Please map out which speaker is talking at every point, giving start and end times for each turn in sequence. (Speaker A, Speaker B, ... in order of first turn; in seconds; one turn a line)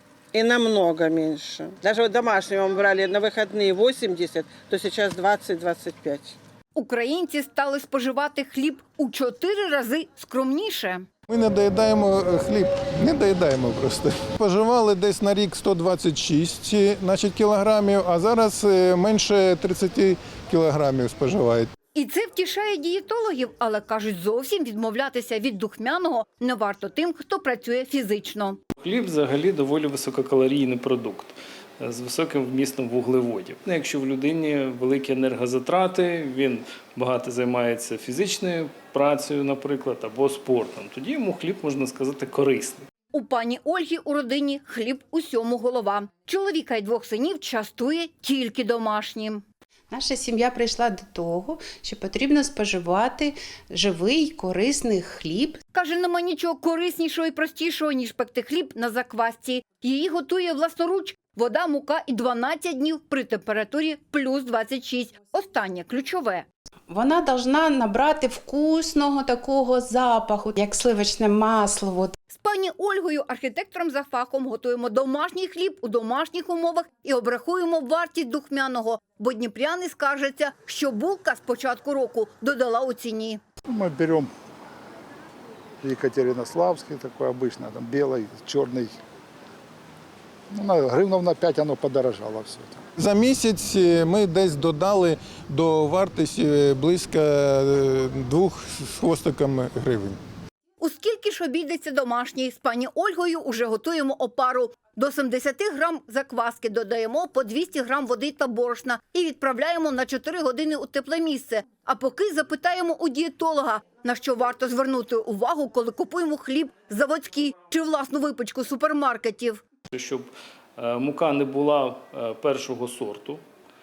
Speaker A: 0.3-6.4
Speaker B: 6.8-11.1
Speaker C: 11.3-21.7
Speaker B: 21.9-28.6
Speaker D: 28.8-42.9
Speaker B: 43.1-49.4
Speaker E: 49.9-55.6
Speaker B: 55.7-66.5
Speaker E: 66.9-72.2
Speaker B: 72.3-83.4
Speaker F: 83.7-84.3
Speaker F: 85.8-89.0
Speaker F: 90.5-92.8
Speaker C: 93.0-100.2
Speaker B: 100.8-119.6
Speaker D: 119.9-123.4